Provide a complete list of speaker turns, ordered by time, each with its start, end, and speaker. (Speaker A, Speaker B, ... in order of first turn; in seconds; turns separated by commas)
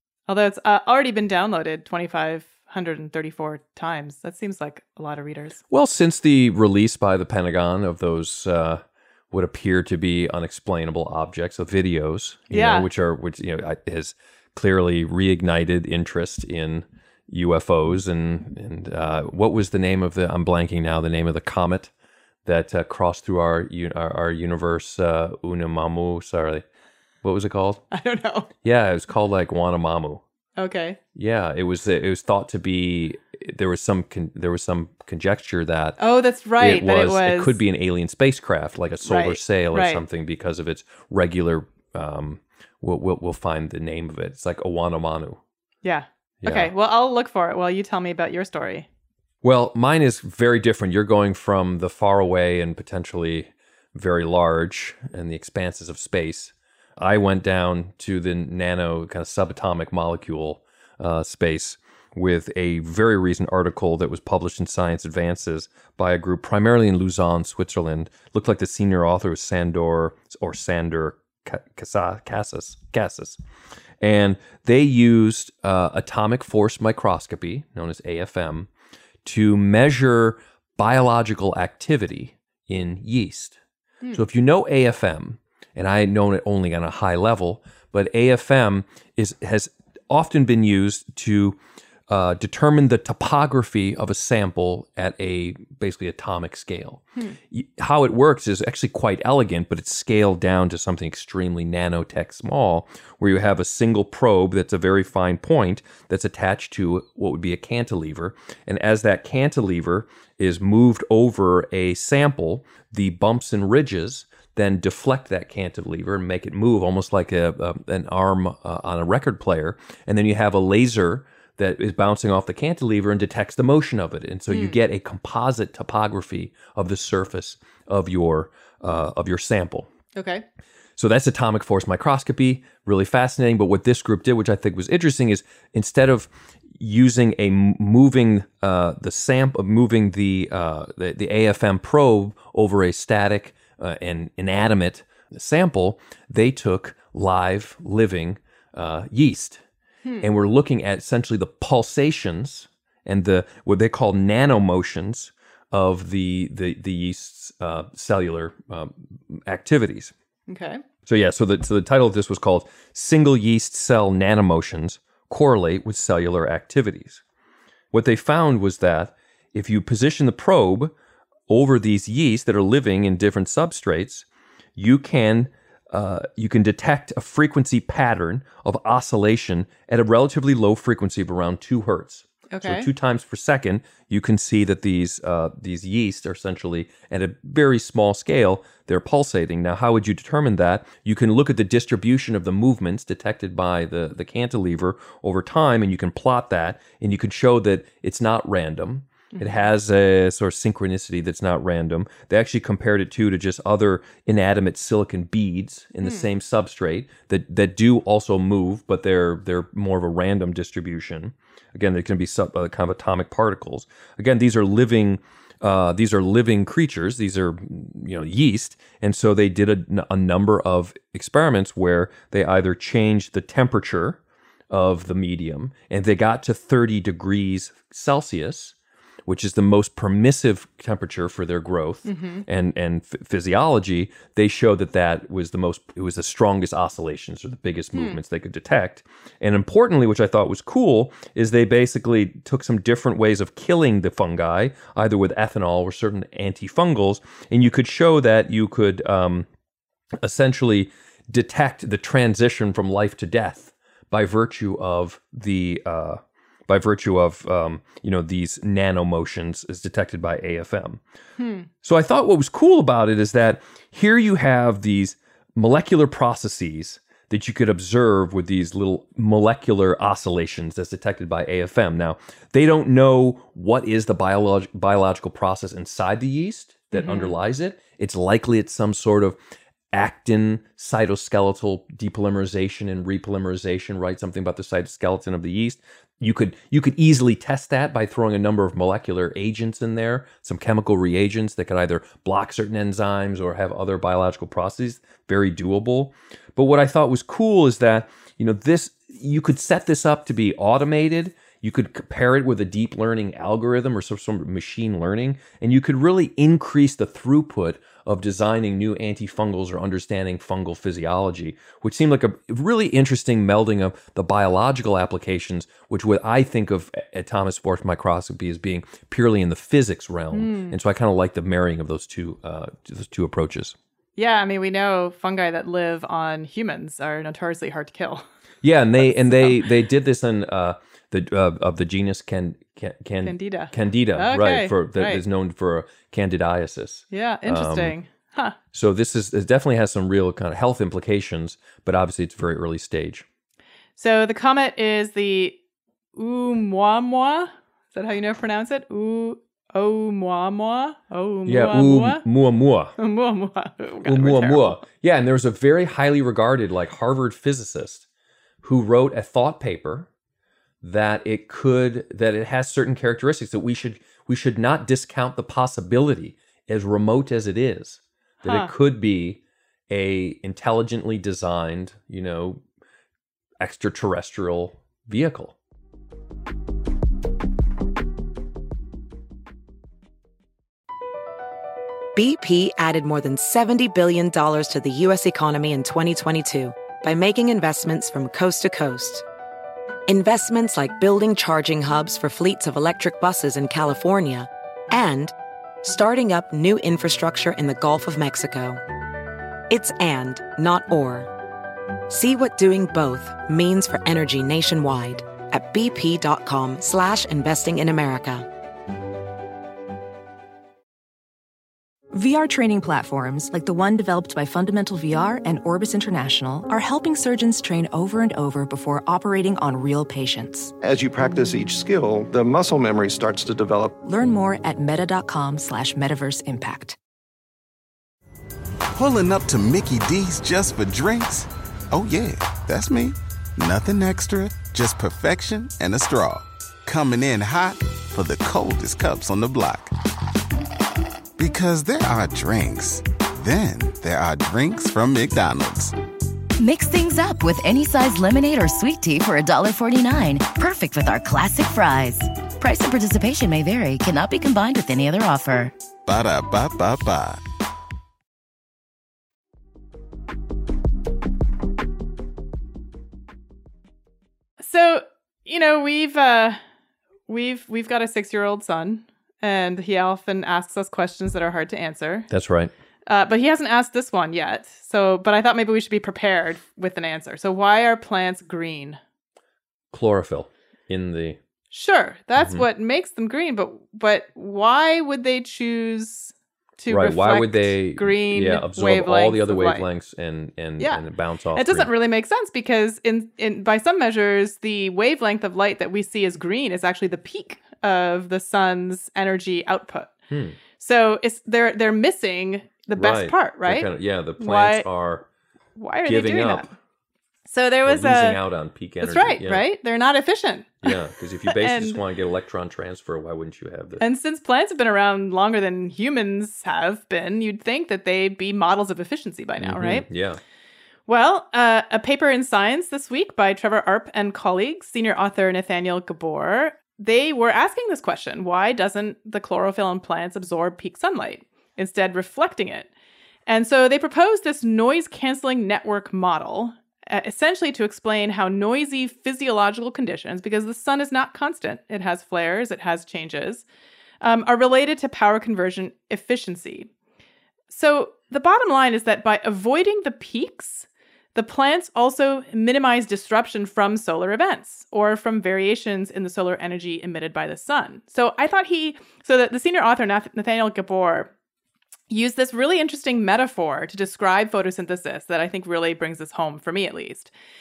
Speaker A: 0.3-5.6, Speaker B: 5.7-21.9, Speaker A: 12.5-12.9, Speaker B: 22.4-26.6, Speaker B: 27.2-27.8, Speaker A: 27.9-28.5, Speaker B: 28.6-30.2, Speaker A: 30.6-31.0, Speaker B: 31.1-36.0, Speaker A: 36.0-37.6, Speaker B: 36.6-45.4, Speaker A: 39.0-40.0, Speaker A: 45.8-48.9, Speaker B: 46.4-46.7, Speaker B: 49.4-73.4, Speaker B: 74.0-78.7, Speaker B: 79.2-83.6, Speaker B: 84.1-91.6, Speaker B: 92.1-129.9, Speaker A: 124.5-124.8, Speaker A: 130.2-130.4, Speaker B: 131.0-149.6, Speaker B: 150.2-160.1, Speaker A: 160.5-160.8, Speaker B: 161.1-167.2, Speaker B: 167.9-170.9, Speaker B: 171.5-174.2, Speaker B: 174.8-224.2, Speaker A: 182.5-182.9, Speaker A: 199.3-199.6, Speaker B: 224.7-228.7, Speaker B: 229.2-249.5, Speaker A: 232.1-232.4, Speaker B: 250.2-261.0, Speaker A: 261.4-261.7, Speaker B: 261.8-279.4, Speaker A: 276.9-277.3, Speaker B: 279.9-323.8, Speaker A: 320.3-320.8, Speaker A: 324.1-328.2, Speaker B: 328.6-337.9, Speaker A: 329.0-329.6, Speaker A: 333.2-335.2, Speaker A: 337.1-338.6, Speaker B: 338.7-343.2, Speaker A: 344.0-345.6, Speaker A: 346.1-352.2, Speaker B: 351.4-352.9, Speaker A: 353.0-354.8, Speaker B: 354.0-358.0, Speaker B: 358.6-360.1, Speaker B: 360.8-372.6, Speaker A: 368.4-368.7, Speaker B: 373.6-375.5, Speaker C: 382.1-389.2, Speaker C: 390.1-398.8, Speaker C: 399.7-401.3, Speaker C: 402.1-408.5, Speaker D: 412.1-420.7, Speaker E: 420.8-423.9, Speaker D: 424.0-427.0, Speaker F: 428.9-439.9, Speaker F: 441.4-445.9, Speaker G: 446.6-455.7, Speaker F: 456.1-457.4, Speaker A: 464.6-466.6, Speaker A: 467.3-472.3, Speaker B: 472.3-472.7, Speaker A: 473.1-479.0, Speaker B: 479.9-481.4, Speaker A: 481.7-489.9, Speaker B: 482.4-482.6, Speaker B: 486.9-491.9, Speaker A: 491.5-500.1, Speaker B: 500.3-500.6, Speaker A: 500.8-504.9, Speaker B: 502.9-505.2, Speaker A: 505.8-506.7, Speaker B: 506.1-506.7, Speaker A: 507.5-508.4, Speaker B: 507.9-509.6, Speaker A: 509.0-512.0, Speaker B: 510.8-514.0, Speaker A: 514.0-520.0, Speaker B: 519.6-520.4, Speaker A: 521.1-532.9, Speaker A: 533.5-543.6, Speaker A: 544.2-546.9, Speaker A: 547.7-561.3, Speaker A: 562.1-567.3